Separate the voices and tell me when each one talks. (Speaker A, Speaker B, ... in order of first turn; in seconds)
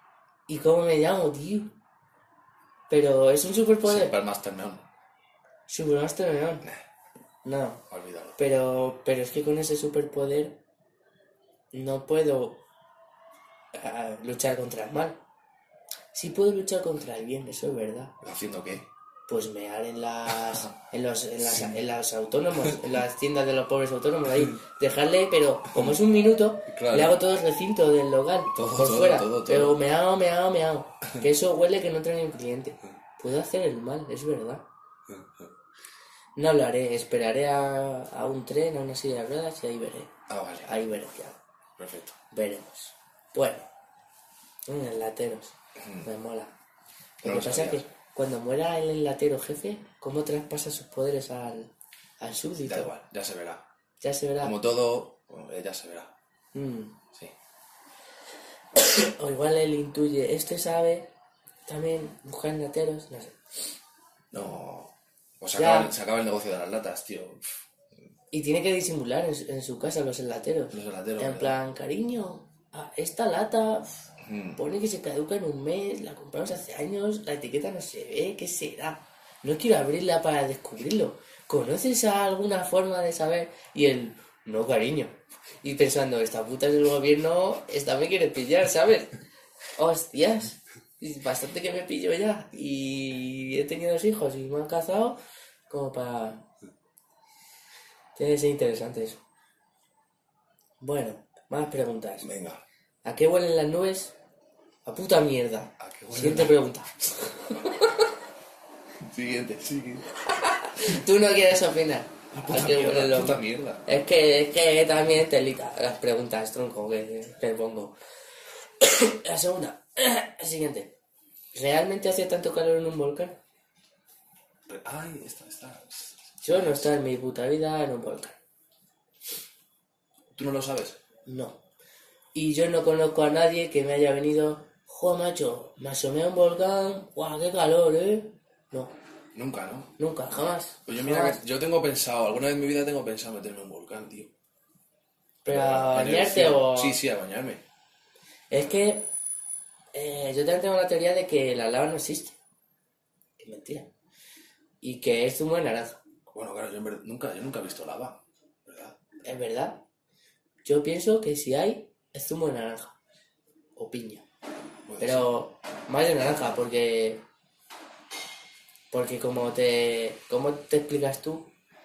Speaker A: 0.5-1.7, 2.9-4.2, 5.7-6.6, 7.4-7.8, 8.4-10.6, 11.7-12.6, 13.7-15.2, 16.1-18.1, 19.3-34.6, 36.4-40.1, 40.6-41.4, 42.3-43.6, 44.6-46.5, 47.2-52.9, 54.0-54.5, 56.5-57.0, 58.7-61.1, 61.6-63.4, 65.5-65.9, 68.3-89.2, 89.8-96.4, 98.1-99.2, 100.8-102.3, 103.0-104.1, 104.8-108.0, 110.4-117.9, 118.8-120.9, 121.5-123.4, 126.4-128.4, 131.2-131.6, 132.3-138.9, 140.0-141.4, 145.4-147.0, 148.5-149.1, 149.9-152.4, 153.4-153.9, 154.8-156.0, 159.2-159.8, 160.6-163.0, 163.8-164.2, 165.0-167.2, 168.9-171.5
Speaker B: 3.8-4.8, 7.9-8.3, 18.2-18.9, 21.4-21.8, 26.7-27.2, 28.5-29.8, 35.1-35.5, 40.3-41.1, 41.8-42.1, 45.8-46.1, 47.2-47.8, 52.6-53.6, 54.4-56.1, 64.3-67.5, 70.7-71.5, 74.2-74.6, 102.2-102.6, 105.8-106.6, 109.0-110.1, 112.3-113.9, 124.7-126.9, 130.3-131.0, 139.3-139.9, 140.8-144.3, 145.4-147.6, 156.3-159.0, 164.9-165.3